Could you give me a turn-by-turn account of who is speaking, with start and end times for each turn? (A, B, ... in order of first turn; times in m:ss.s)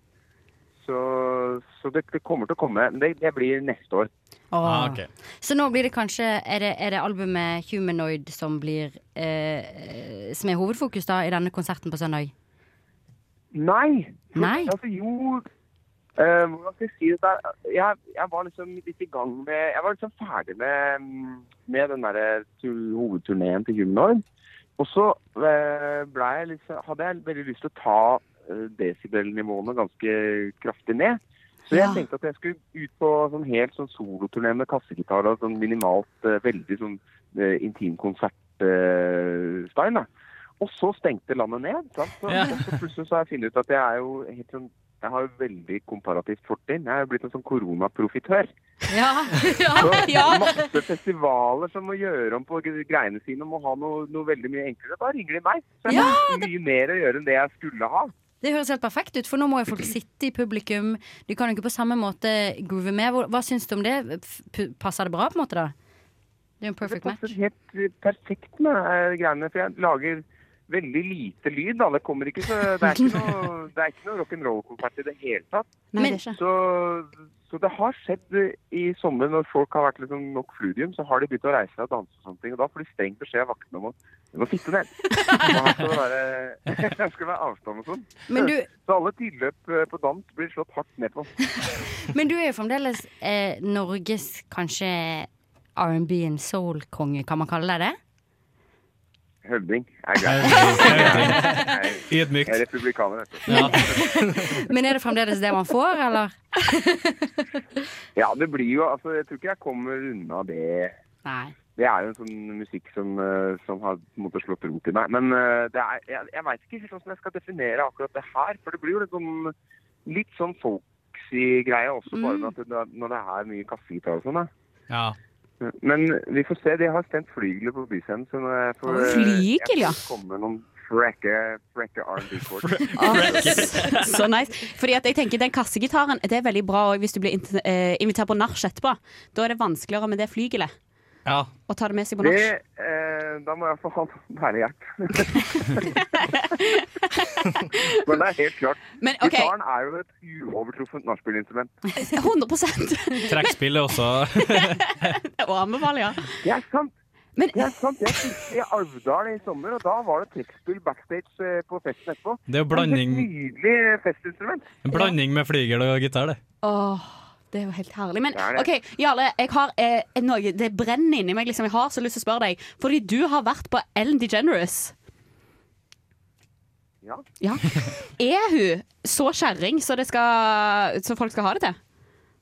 0:00.8-0:04.1 A
0:04.5-0:12.3 B
0:04.6-0:05.1 C
0:13.5-0:15.4 A
0:14.4-0:14.8 B
0:16.2-0:24.2 A
0:24.8-0:40.1 A
0:31.7-0:32.0 D
0:40.6-0:48.5 A
0:42.3-0:42.6 C
0:48.9-0:50.7 B
0:49.7-0:50.5 D
0:49.8-0:58.1 A
0:55.9-0:56.5 B
0:55.9-0:56.2 D
0:58.4-1:05.7 B
1:06.6-1:07.4 B
1:06.8-1:31.3 A
1:15.9-1:16.4 D
1:28.3-1:28.7 B
1:31.6-1:38.0 B
1:39.4-1:43.8 A
1:40.2-1:42.6 C
1:40.4-1:41.8 B
1:43.5-1:47.5 B
1:43.5-1:44.0 C
1:48.2-1:50.9 A
1:51.2-1:51.6 B
1:51.8-1:59.5 A
2:00.0-2:04.5 A
2:02.1-2:02.5 B
2:04.9-2:05.2 C
2:05.6-2:12.8 A
2:08.9-2:09.3 B
2:09.0-2:10.0 D
2:12.6-2:14.0 C
2:13.0-2:20.7 D
2:21.7-2:22.5 D
2:22.2-2:25.9 A
2:26.0-2:28.0 D
2:27.8-2:31.7 A
2:29.0-2:29.5 D
2:32.0-2:33.6 D
2:33.3-2:35.1 C
2:34.4-2:36.4 D
2:36.4-2:36.9 A
2:37.4-2:38.2 D
2:37.5-2:44.8 A
2:42.5-2:43.3 C
2:44.8-2:46.4 C
2:46.6-2:54.9 D
2:48.3-2:48.7 A
2:57.4-3:01.8 D